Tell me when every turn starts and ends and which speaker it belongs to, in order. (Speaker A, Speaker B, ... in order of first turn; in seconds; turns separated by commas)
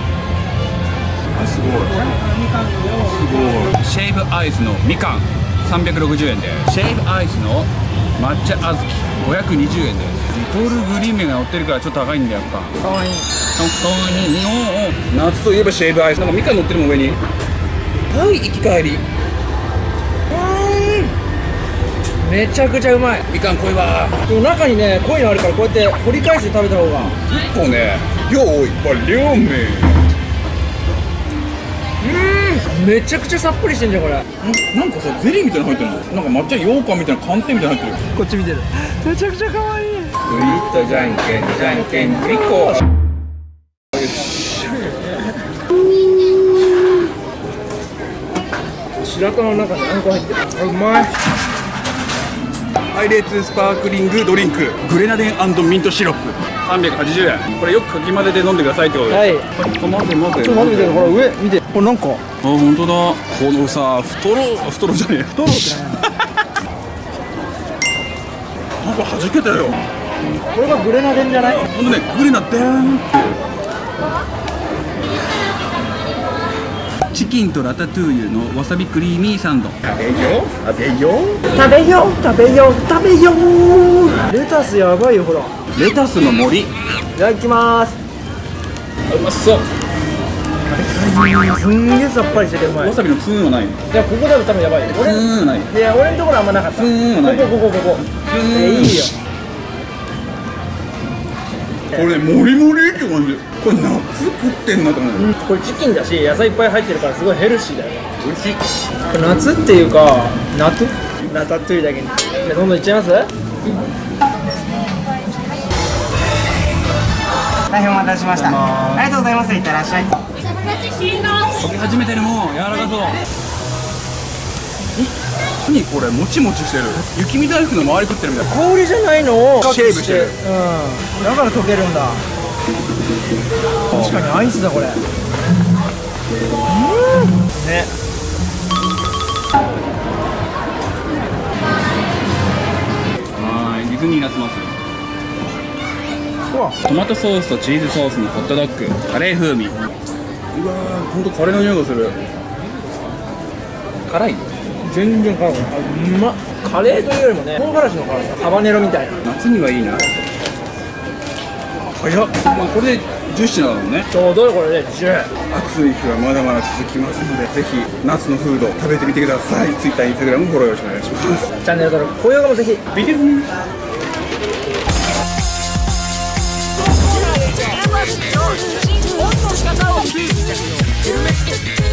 Speaker A: 1.3-2.1, Speaker B: 1.9-3.1, Speaker A: 3.0-12.8, Speaker B: 12.8-13.3, Speaker A: 13.5-17.2, Speaker A: 18.1-19.0, Speaker B: 20.3-21.1, Speaker B: 22.2-23.3, Speaker A: 23.3-24.2, Speaker B: 24.3-27.2, Speaker A: 27.2-30.0, Speaker B: 32.0-34.2, Speaker A: 34.4-38.0, Speaker B: 38.1-40.2, Speaker A: 40.2-42.8, Speaker B: 44.8-45.2, Speaker B: 49.0-51.1, Speaker A: 52.9-61.2, Speaker B: 59.1-59.5, Speaker B: 60.4-62.2, Speaker A: 62.4-66.1, Speaker B: 65.3-66.1, Speaker A: 68.8-69.8, Speaker B: 70.5-71.7, Speaker A: 71.7-73.3, Speaker A: 77.1-81.4, Speaker B: 81.5-85.5, Speaker A: 85.8-86.7, Speaker B: 87.2-88.0, Speaker A: 89.1-89.7, Speaker B: 90.7-93.0, Speaker A: 92.7-93.8, Speaker B: 93.9-99.1, Speaker A: 94.9-95.7, Speaker A: 96.7-99.1, Speaker A: 101.9-105.3, Speaker B: 105.2-108.0, Speaker A: 108.2-108.6, Speaker B: 109.1-113.3, Speaker C: 117.7-120.1, Speaker A: 118.5-118.9, Speaker A: 121.4-123.2, Speaker A: 125.0-128.5, Speaker B: 128.5-132.2, Speaker A: 129.6-130.4, Speaker B: 133.9-135.0, Speaker B: 136.7-137.9, Speaker A: 143.4-144.7, Speaker B: 146.5-146.8, Speaker A: 146.8-149.8, Speaker A: 150.5-152.2, Speaker A: 154.1-154.5, Speaker B: 154.8-159.2, Speaker A: 159.2-160.1, Speaker A: 161.9-164.1, Speaker B: 164.1-165.3, Speaker A: 165.5-171.5, Speaker B: 171.6-172.9, Speaker A: 172.9-173.5, Speaker B: 177.4-178.4, Speaker B: 179.2-181.1